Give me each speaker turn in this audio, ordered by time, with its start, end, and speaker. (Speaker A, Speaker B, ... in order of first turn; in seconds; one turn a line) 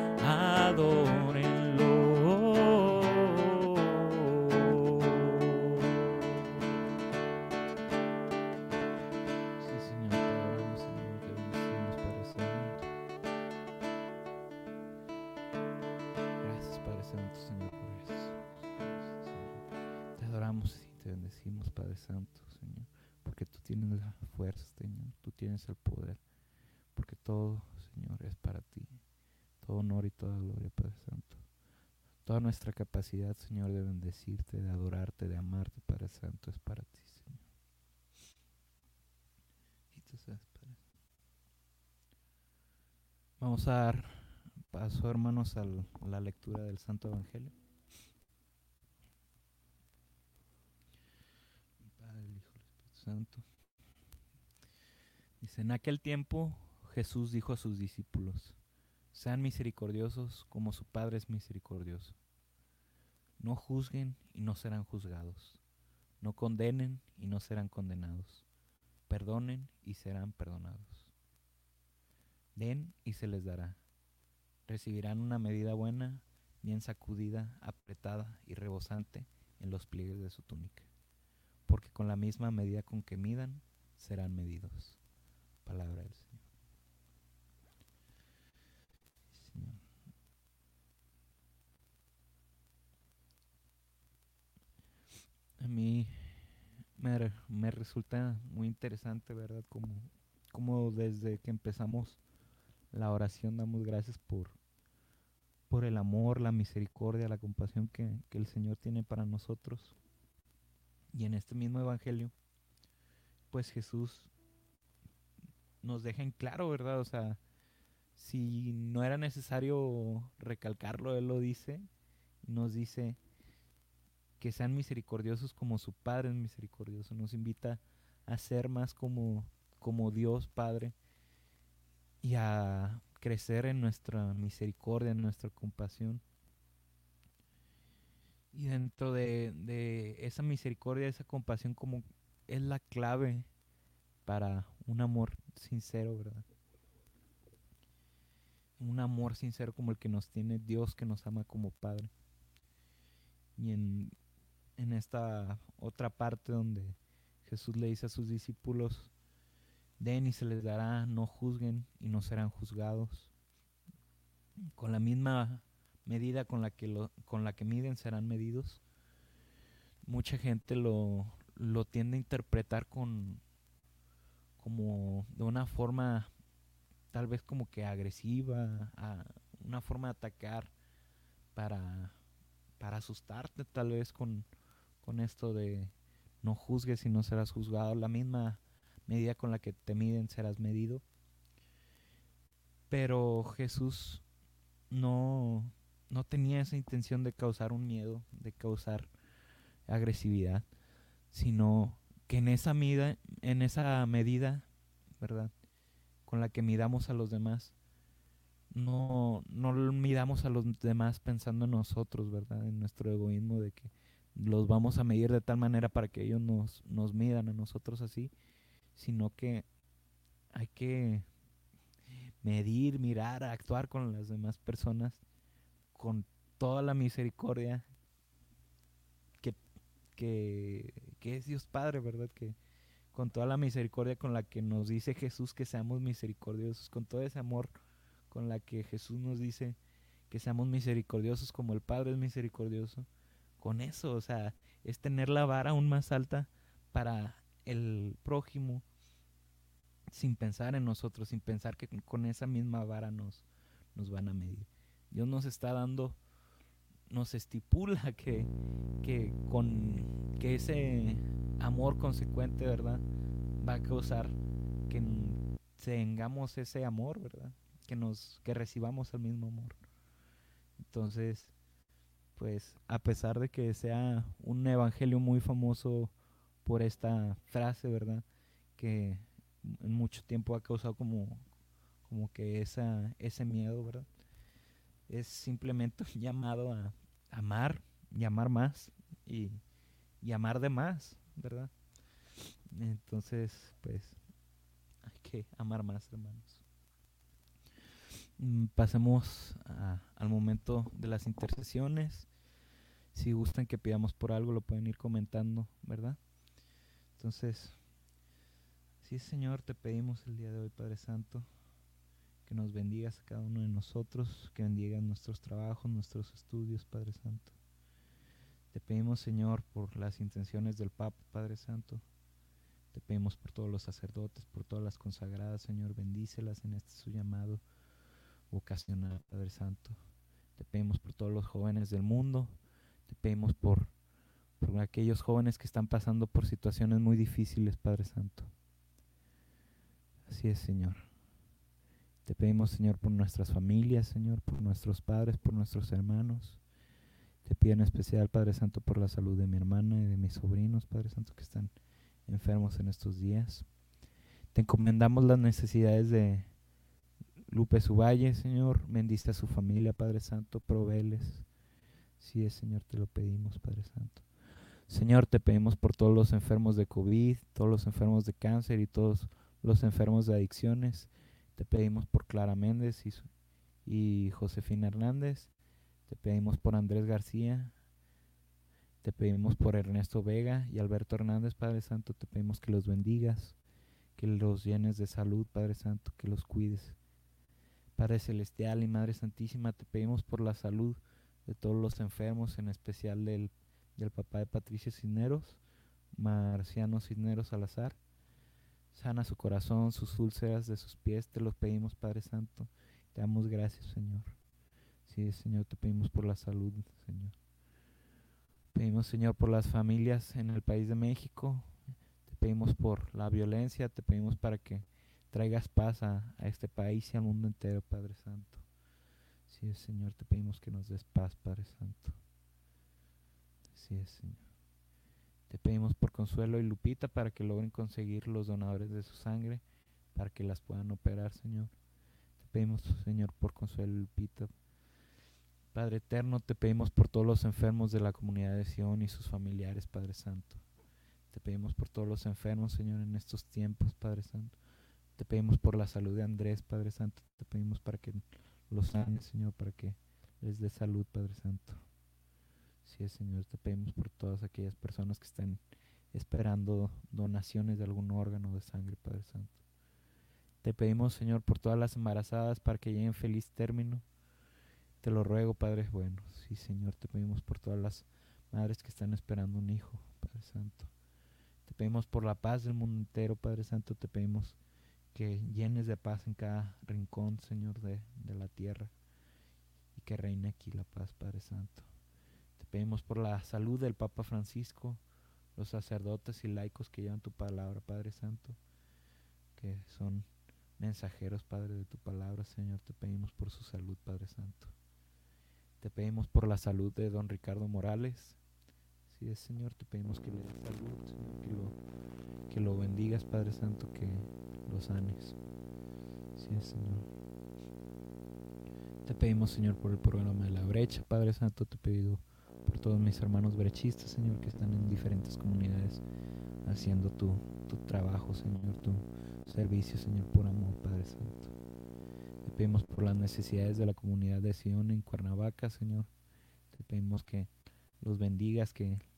Speaker A: 0.2-6.3
Speaker A: 9.6-12.9
Speaker A: 16.4-26.2
Speaker A: 26.9-29.0
Speaker A: 29.6-31.4
Speaker A: 32.2-37.4
Speaker A: 39.9-40.8
Speaker A: 43.4-47.5
Speaker A: 51.9-53.4
Speaker A: 55.4-58.6
Speaker A: 59.1-62.2
Speaker A: 63.4-65.6
Speaker A: 66.2-68.5
Speaker A: 69.1-71.1
Speaker A: 72.5-73.8
Speaker A: 74.7-80.9
Speaker A: 81.7-85.0
Speaker A: 85.6-86.4
Speaker A: 89.3-89.8
Speaker A: 95.6-102.2
Speaker A: 102.9-104.6
Speaker A: 105.7-110.0
Speaker A: 111.1-112.3
Speaker A: 113.5-114.3
Speaker A: 115.8-117.4
Speaker A: 118.2-121.8
Speaker A: 122.4-123.2
Speaker A: 124.4-130.9
Speaker A: 132.2-136.2
Speaker A: 138.5-143.5
Speaker A: 144.2-146.4
Speaker A: 148.8-152.1
Speaker A: 153.6-154.1
Speaker A: 154.8-159.1
Speaker A: 160.0-163.3
Speaker A: 164.8-168.8
Speaker A: 170.0-173.4
Speaker A: 174.6-176.3
Speaker A: 177.1-180.7
Speaker A: 181.5-182.2
Speaker A: 182.8-184.5
Speaker A: 185.0-191.0
Speaker A: 192.9-194.2
Speaker A: 194.9-199.1
Speaker A: 199.9-200.7
Speaker A: 201.3-204.7
Speaker A: 205.2-205.5
Speaker A: 206.2-207.7
Speaker A: 208.7-218.3
Speaker A: 218.9-219.7
Speaker A: 220.5-221.3
Speaker A: 222.4-225.2
Speaker A: 225.9-227.8
Speaker A: 230.2-232.6
Speaker A: 233.1-237.8
Speaker A: 238.3-239.8
Speaker A: 240.3-243.1
Speaker A: 243.6-248.8
Speaker A: 250.1-256.2
Speaker A: 257.1-263.0
Speaker A: 263.6-264.4
Speaker A: 264.9-269.8
Speaker A: 270.8-271.5
Speaker A: 272.4-276.1
Speaker A: 276.6-278.2
Speaker A: 278.8-281.4
Speaker A: 282.1-284.1
Speaker A: 285.1-289.6
Speaker A: 290.2-291.7
Speaker A: 292.7-294.2
Speaker A: 295.0-296.6
Speaker A: 298.4-302.3
Speaker A: 303.1-306.2
Speaker A: 307.1-307.8
Speaker A: 309.0-311.5
Speaker A: 312.4-317.5
Speaker A: 318.7-322.0
Speaker A: 322.9-327.6
Speaker A: 328.5-330.0
Speaker A: 330.6-333.9
Speaker A: 334.6-338.5
Speaker A: 340.3-341.1
Speaker A: 342.2-346.6
Speaker A: 347.4-351.7
Speaker A: 352.3-353.7
Speaker A: 354.5-356.5
Speaker A: 357.5-361.4
Speaker A: 362.2-364.2
Speaker A: 364.9-373.3
Speaker A: 373.8-375.5
Speaker A: 376.1-377.7
Speaker A: 379.0-383.6
Speaker A: 384.2-387.0
Speaker A: 388.0-395.6
Speaker A: 396.1-398.0
Speaker A: 398.9-404.4
Speaker A: 405.1-407.3
Speaker A: 408.7-411.7
Speaker A: 412.2-418.6
Speaker A: 419.5-422.2
Speaker A: 423.7-424.4
Speaker A: 425.5-429.6
Speaker A: 430.1-431.7
Speaker A: 432.4-434.5
Speaker A: 435.7-440.6
Speaker A: 441.3-444.6
Speaker A: 445.2-451.8
Speaker A: 452.8-455.6
Speaker A: 456.1-459.6
Speaker A: 460.6-464.0
Speaker A: 465.0-470.9
Speaker A: 471.6-474.6
Speaker A: 475.1-478.9
Speaker A: 479.9-481.9
Speaker A: 482.6-485.0
Speaker A: 485.6-488.6
Speaker A: 489.6-494.7
Speaker A: 495.8-498.4
Speaker A: 499.1-501.8
Speaker A: 502.5-505.4
Speaker A: 506.4-507.1
Speaker A: 509.0-516.0
Speaker A: 516.6-521.5
Speaker A: 522.4-526.1
Speaker A: 526.7-527.5
Speaker A: 528.0-529.0